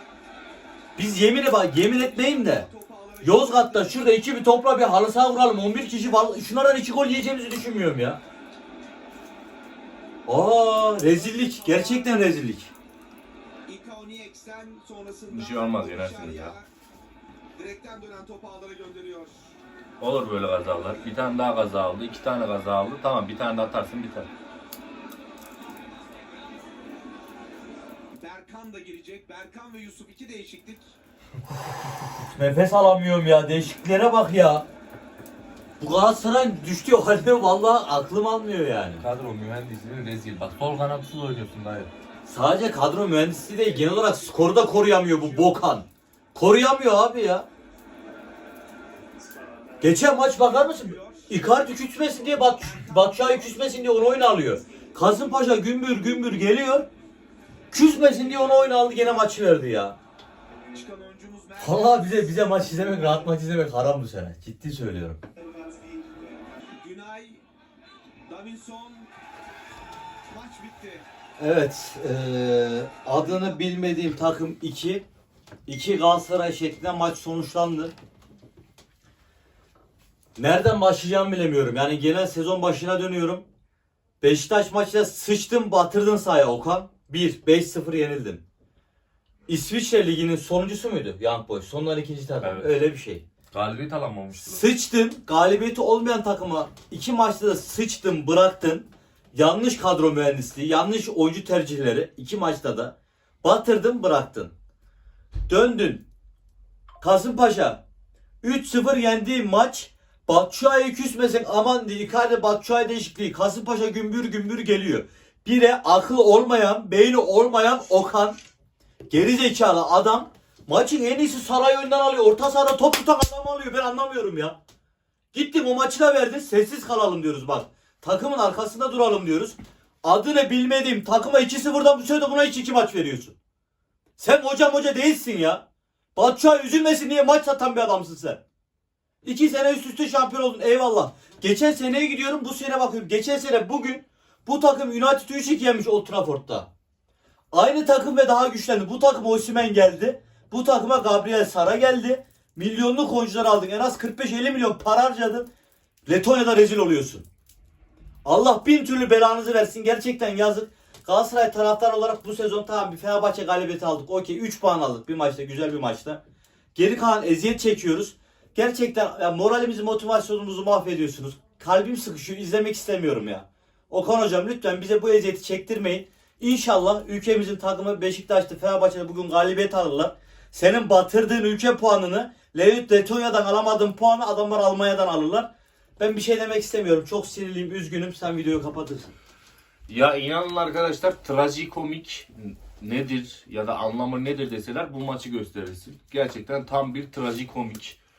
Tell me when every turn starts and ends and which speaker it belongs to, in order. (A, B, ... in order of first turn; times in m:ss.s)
0:01.0-0:02.7 A
0:01.8-0:04.0 B
0:03.2-0:08.2 A
0:10.3-0:12.7 A
0:11.0-0:12.3 B
0:13.7-0:16.7 B
0:15.3-0:16.6 C
0:17.6-0:19.5 B
0:20.0-0:24.3 C
0:28.2-0:31.0 B
0:32.3-0:34.7 A
0:35.8-0:39.0 A
0:39.0-0:41.9 C
0:42.2-0:47.5 A
0:43.6-0:45.6 B
0:49.8-0:56.9 A
0:50.2-0:51.3 B
0:52.2-0:54.5 B
0:57.7-1:00.0 A
1:00.7-1:02.5 B
1:01.6-1:05.2 A
1:06.7-1:07.4 B
1:08.2-1:09.1 B
1:10.3-1:11.0 B
1:11.4-1:15.0 A
1:15.7-1:17.9 A
1:20.4-1:23.4 A
1:24.2-1:28.4 A
1:29.5-1:33.2 A
1:32.4-1:32.8 C
1:33.5-1:34.6 C
1:34.4-1:44.5 A
1:45.5-1:46.0 A
1:47.0-1:47.8 A
1:48.4-1:58.4 A
1:59.1-2:04.6 A
2:05.3-2:13.4 A
2:14.2-2:15.6 A
2:16.2-2:18.4 A
2:19.2-2:26.7 A
2:27.5-2:35.5 A
2:36.1-2:37.3 A
2:38.2-2:46.2 A
2:46.8-3:09.1 A
3:09.9-3:18.0 C